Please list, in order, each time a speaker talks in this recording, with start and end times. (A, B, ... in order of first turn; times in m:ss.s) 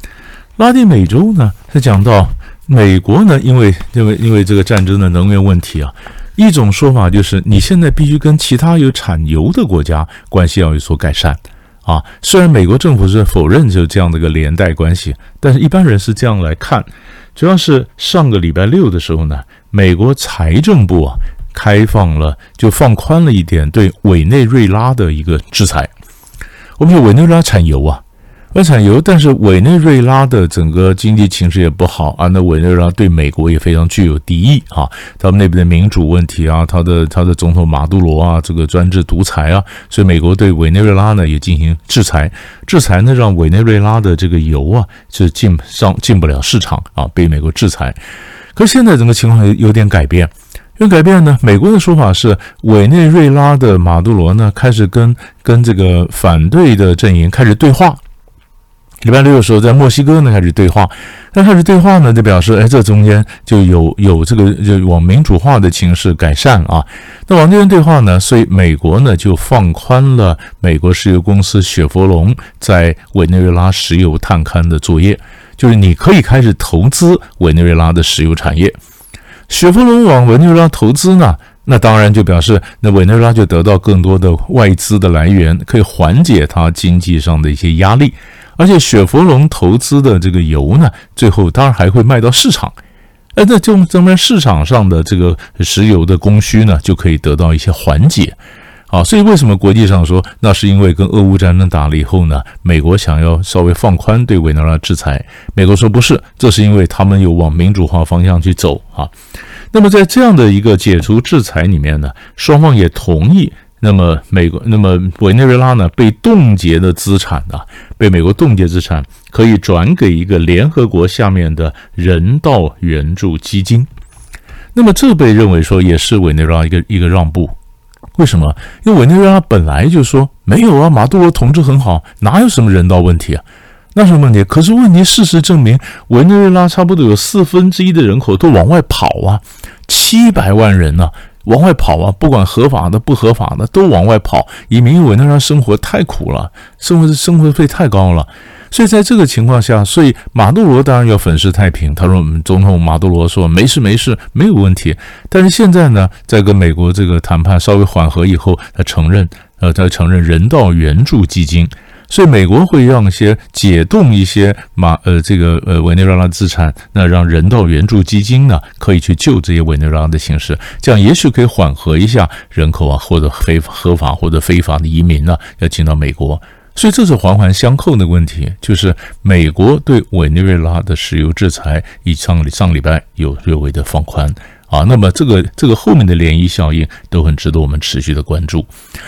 0:00.6-0:25.9 A
0:26.8-0:48.0 A
0:48.5-0:58.0 A
0:59.0-1:18.8 A
1:19.5-1:32.8 A
1:33.3-1:38.4 A
1:38.9-1:49.1 A
1:49.7-2:03.9 A
2:04.7-2:07.6 A
2:08.1-3:08.7 A